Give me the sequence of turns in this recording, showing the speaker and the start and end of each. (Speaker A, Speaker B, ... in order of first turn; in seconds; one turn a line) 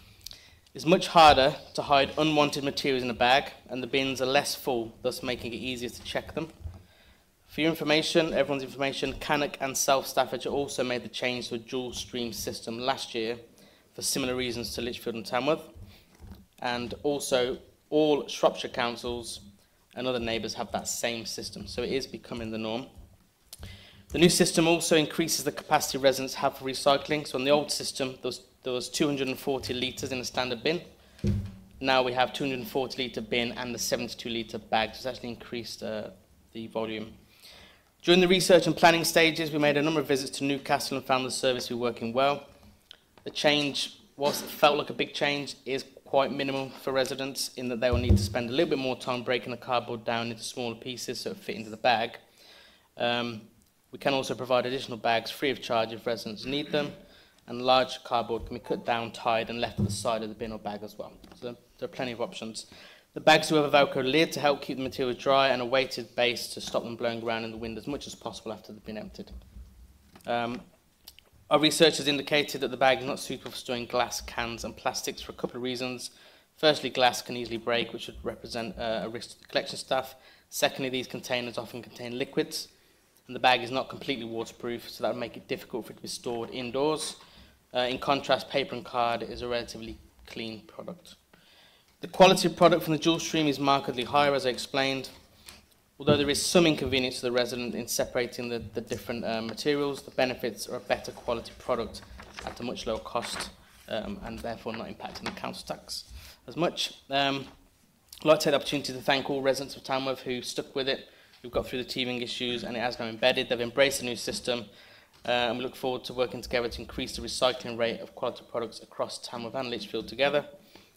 Speaker A: 0.7-6.5
Speaker A: 7.5-13.4
Speaker A: 13.9-15.7
Speaker A: 16.6-19.4
Speaker A: 19.9-22.9
Speaker A: 24.1-30.9
Speaker A: 31.8-37.2
Speaker A: 38.0-42.5
Speaker A: 43.2-52.2
Speaker A: 53.0-69.3
Speaker A: 70.2-70.7
Speaker A: 71.5-82.7
Speaker A: 83.3-87.2
Speaker A: 87.7-91.2
Speaker A: 92.0-95.1
Speaker A: 96.0-107.5
Speaker A: 108.2-114.7
Speaker A: 115.2-120.5